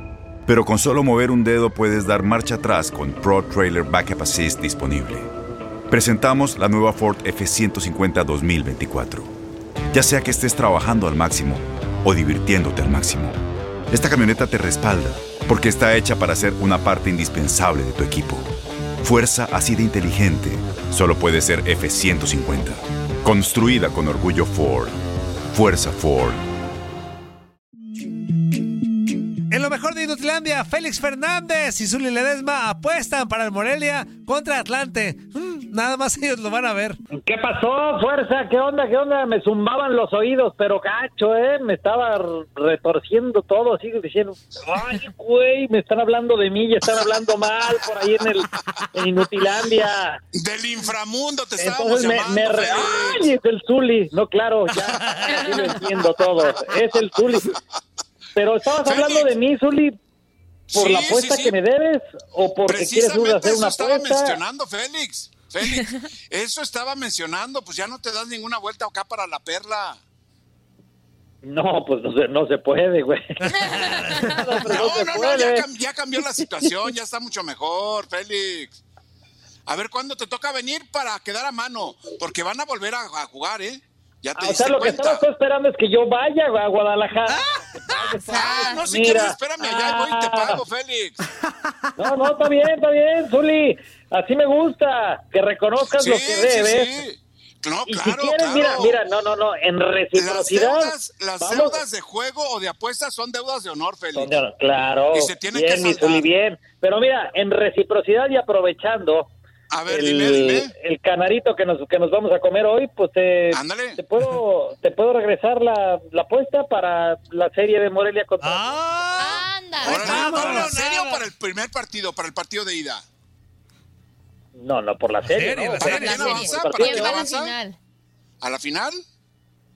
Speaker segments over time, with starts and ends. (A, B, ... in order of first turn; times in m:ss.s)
0:00.5-0:05.3 A
0:05.9-0:09.3 A
0:09.9-0:13.4 A
0:13.9-0:18.5 A
0:19.0-0:24.9 A
0:25.5-0:26.4 A
0:29.5-0:37.0 B
0:37.1-0:50.2 C
0:50.3-0:53.2 D
0:51.6-0:57.5 C
0:55.0-0:55.7 B
0:58.3-0:59.9 C
0:58.8-0:59.3 D
1:00.7-1:01.6 D
1:00.7-1:04.4 C
1:02.6-1:10.0 D
1:11.4-1:15.6 C
1:13.4-1:14.7 B
1:14.7-1:18.8 D
1:19.7-1:25.2 D
1:24.4-1:30.6 C
1:27.3-1:28.1 B
1:28.2-1:28.8 E
1:28.3-1:31.2 D
1:32.0-1:36.9 C
1:35.9-1:39.0 D
1:37.9-1:41.8 C
1:40.2-1:44.3 D
1:44.1-1:49.3 C
1:45.1-1:46.3 D
1:49.7-1:50.7 D
1:49.9-1:58.8 C
1:53.5-1:54.0 D
1:58.4-2:01.2 B
1:59.2-2:00.6 E
1:59.8-2:03.0 D
2:04.5-2:07.3 C
2:05.2-2:06.6 B
2:05.8-2:07.5 D
2:05.9-2:07.8 E
2:08.4-2:09.0 D